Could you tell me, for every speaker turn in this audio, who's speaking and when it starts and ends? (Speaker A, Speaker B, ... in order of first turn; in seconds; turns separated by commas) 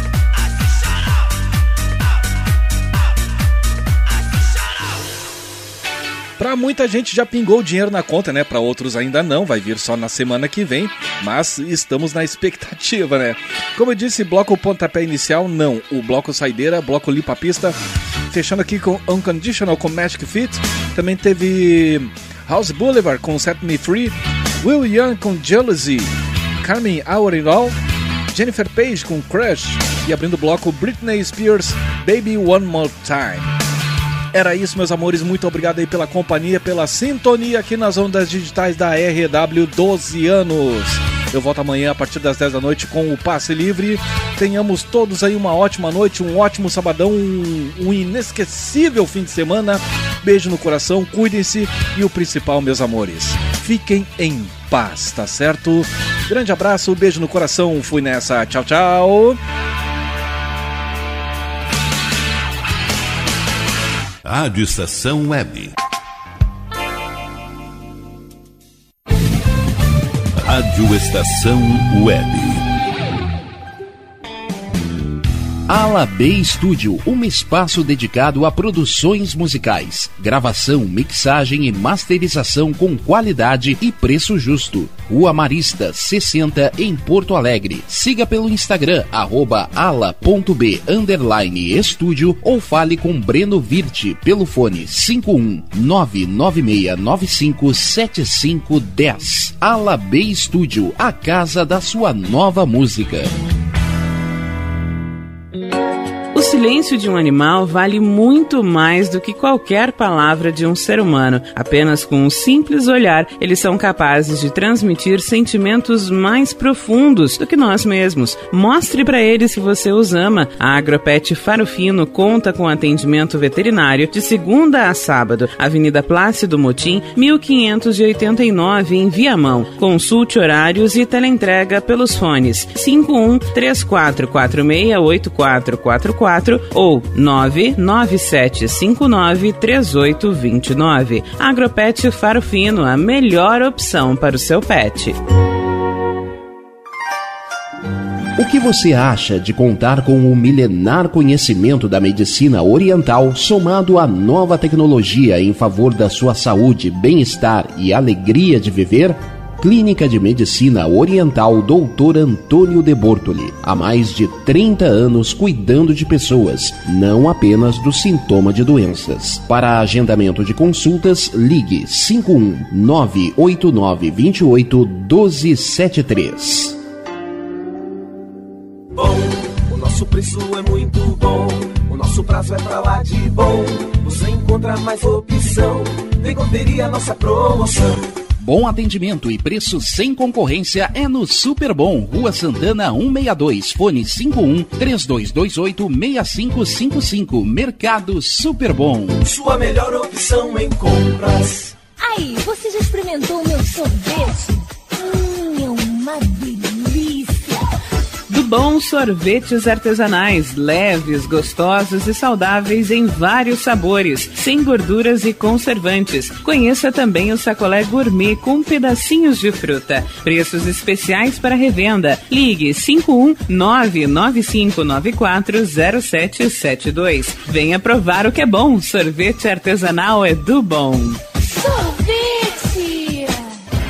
Speaker A: 6.4-17.8, Speaker A: 18.3-27.8, Speaker A: 28.3-33.5, Speaker A: 34.3-59.4, Speaker B: 64.2-65.7, Speaker B: 70.4-72.6, Speaker C: 75.7-103.3, Speaker D: 106.3-145.2, Speaker C: 148.4-176.8, Speaker E: 178.9-188.0, Speaker C: 188.4-199.2, Speaker E: 199.2-201.7, Speaker F: 202.0-207.7, Speaker D: 208.3-231.2, Speaker F: 231.4-233.4